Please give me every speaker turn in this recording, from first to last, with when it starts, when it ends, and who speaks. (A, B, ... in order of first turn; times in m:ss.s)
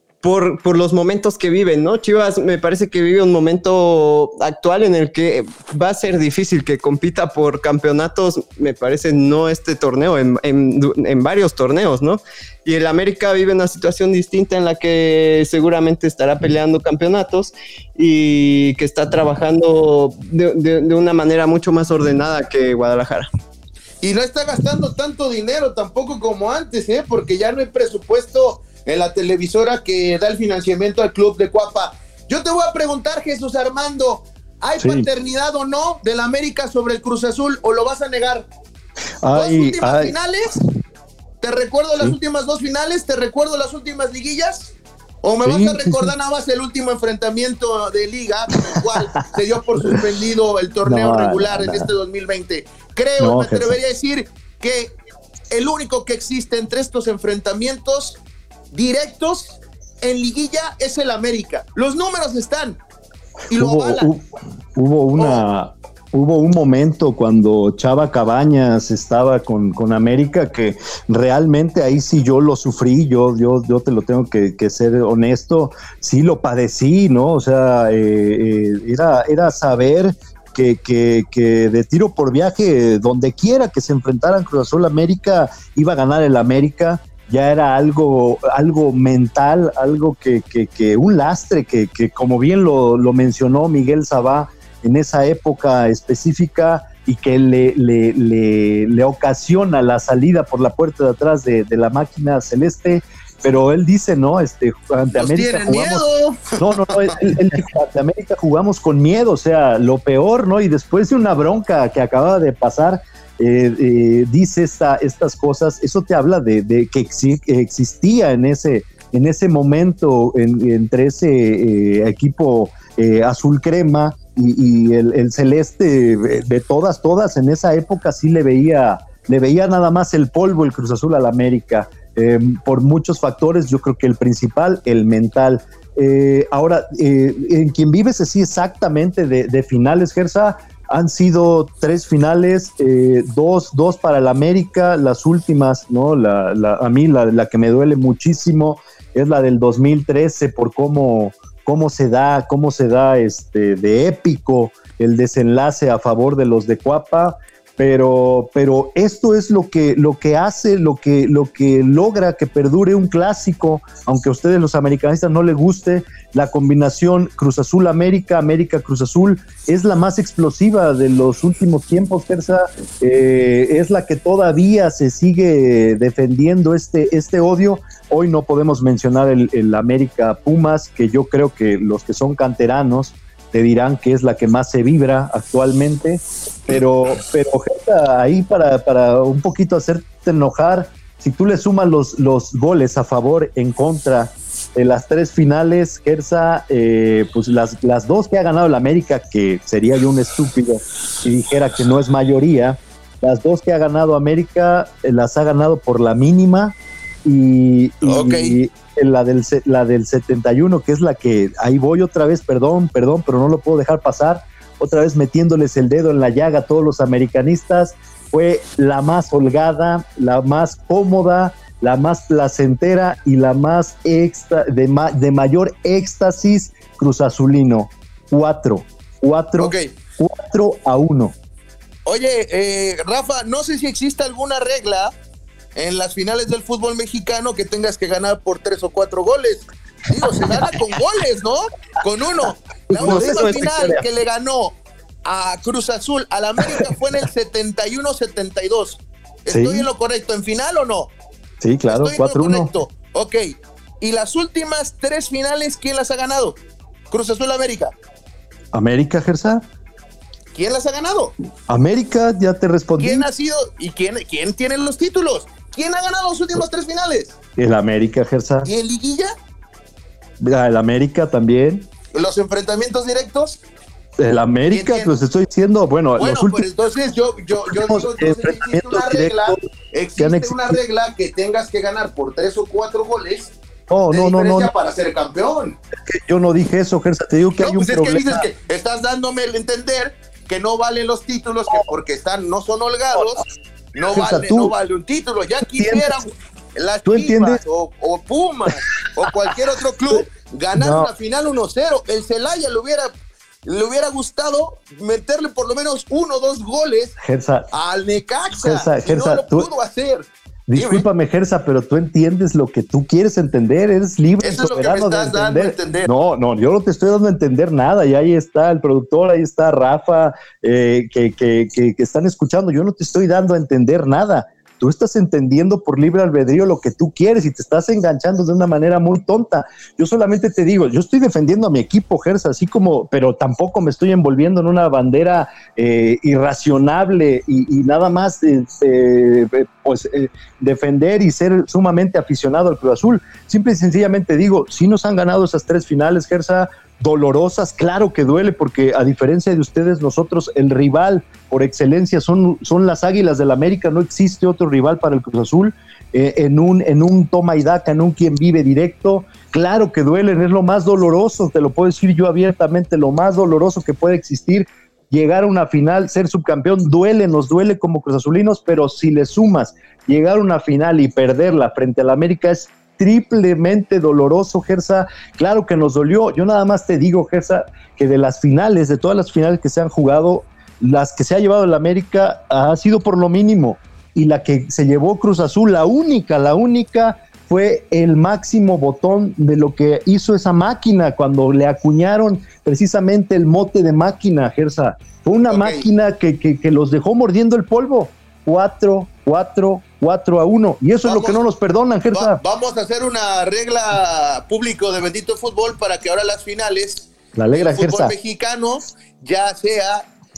0:00.2-0:23.3 A
0:24.0-0:38.5 B
0:34.8-0:35.1 C
0:39.2-0:40.1 C
0:39.4-0:40.6 B
0:41.4-0:54.9 B
0:45.4-0:46.1 C
0:50.8-0:51.9 C
0:53.2-0:53.8 C
0:55.5-0:58.2 B
0:58.7-1:02.8 B
1:03.5-1:04.1 B
1:03.5-1:04.2 C
1:04.7-1:46.0 C
1:05.2-1:05.4 B
1:45.1-1:47.2 B
1:46.6-3:51.3 C
3:28.0-3:28.5 B
3:49.6-3:49.9 B
3:52.0-3:55.1 B
3:55.8-4:11.1 B
4:02.9-4:04.0 C
4:03.0-4:04.0 A
4:09.5-4:09.9 C
4:11.6-4:12.7 C
4:11.9-4:16.6 B
4:17.1-4:17.9 B
4:18.7-4:19.6 C
4:20.5-4:21.3 B
4:21.7-4:23.3 C
4:23.0-4:27.4 B
4:27.6-4:28.7 C
4:28.6-4:29.3 B
4:30.4-4:31.9 C
4:32.1-4:33.6 B
4:34.2-4:36.6 C
4:34.7-4:35.1 B
4:36.2-4:43.5 B
4:37.7-4:39.6 C
4:40.2-4:40.8 C
4:43.9-4:44.7 C
4:44.1-4:45.8 B
4:46.0-4:48.4 C
4:47.6-4:53.4 B
4:54.0-5:03.1 B
4:54.0-4:54.7 C
4:55.8-4:56.2 C
4:57.0-4:57.6 C
5:00.7-5:01.1 C
5:03.6-5:07.2 B
5:07.2-5:07.7 C
5:07.7-5:11.0 B
5:08.6-5:09.7 C
5:10.7-6:42.4 C
5:14.4-5:16.1 B
6:35.5-6:35.8 B
6:41.0-6:41.4 B
6:42.1-6:50.0 B
6:47.3-6:48.1 C